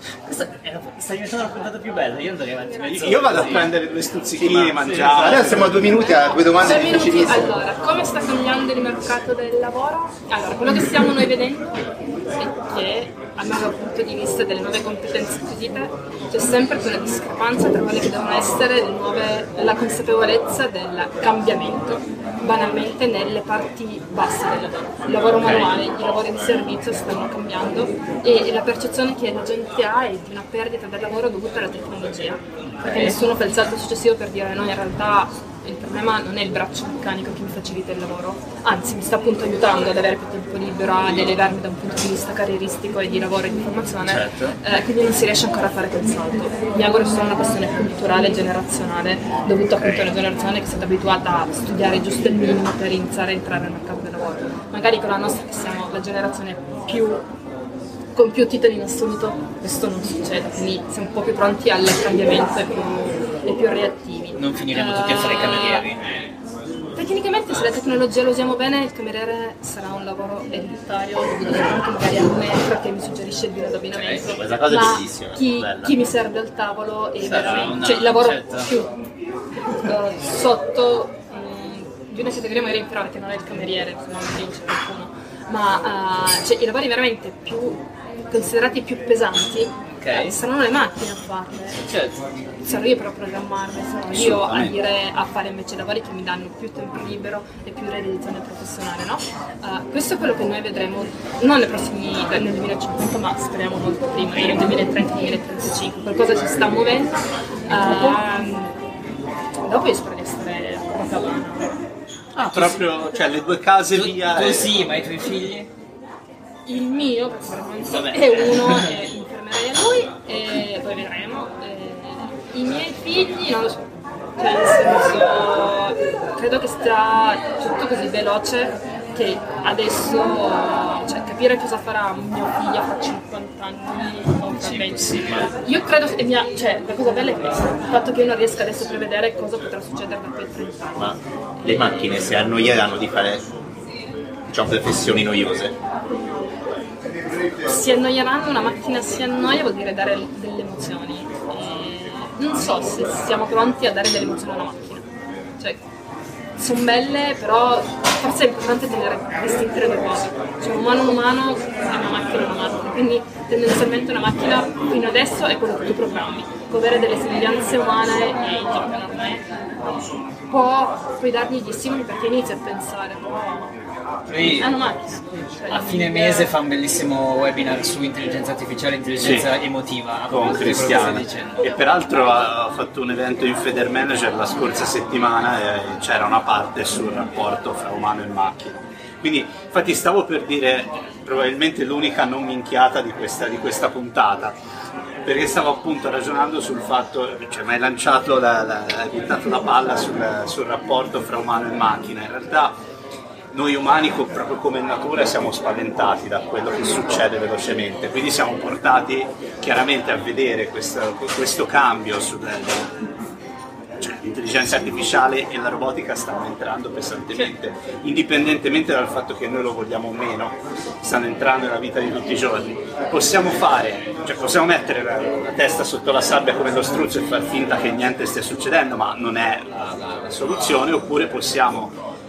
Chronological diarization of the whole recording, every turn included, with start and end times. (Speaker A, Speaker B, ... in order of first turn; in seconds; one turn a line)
Speaker A: 0.3-3.7
Speaker B: 2.6-3.8
Speaker C: 2.9-5.8
Speaker D: 4.4-7.5
Speaker A: 4.8-5.8
Speaker B: 5.8-11.8
Speaker B: 12.4-57.2
Speaker A: 25.4-25.8
Speaker A: 32.6-33.2
Speaker A: 44.0-44.6
Speaker A: 49.8-50.0
Speaker B: 58.1-65.9
Speaker A: 64.3-66.0
Speaker B: 67.0-78.9
Speaker A: 73.9-74.2
Speaker D: 74.3-76.0
Speaker A: 77.2-78.7
Speaker B: 79.8-91.8
Speaker A: 89.9-90.3
Speaker A: 91.8-92.2
Speaker B: 92.6-108.7
Speaker C: 94.1-94.8
Speaker B: 109.7-111.7
Speaker A: 112.4-112.9
Speaker C: 112.4-114.8
Speaker A: 113.9-115.7
Speaker B: 116.7-123.9
Speaker A: 117.8-118.9
Speaker B: 124.4-142.3
Speaker A: 134.5-135.5
Speaker D: 141.0-143.5
Speaker D: 144.5-145.7
Speaker B: 147.6-155.1
Speaker B: 156.6-169.4
Speaker B: 170.5-173.7
Speaker A: 174.3-174.7
Speaker B: 174.4-176.5
Speaker A: 175.7-181.7
Speaker C: 179.2-179.5
Speaker C: 180.3-194.6
Speaker B: 181.6-182.5
Speaker C: 195.2-202.8
Speaker C: 203.5-212.9
Speaker C: 214.0-231.9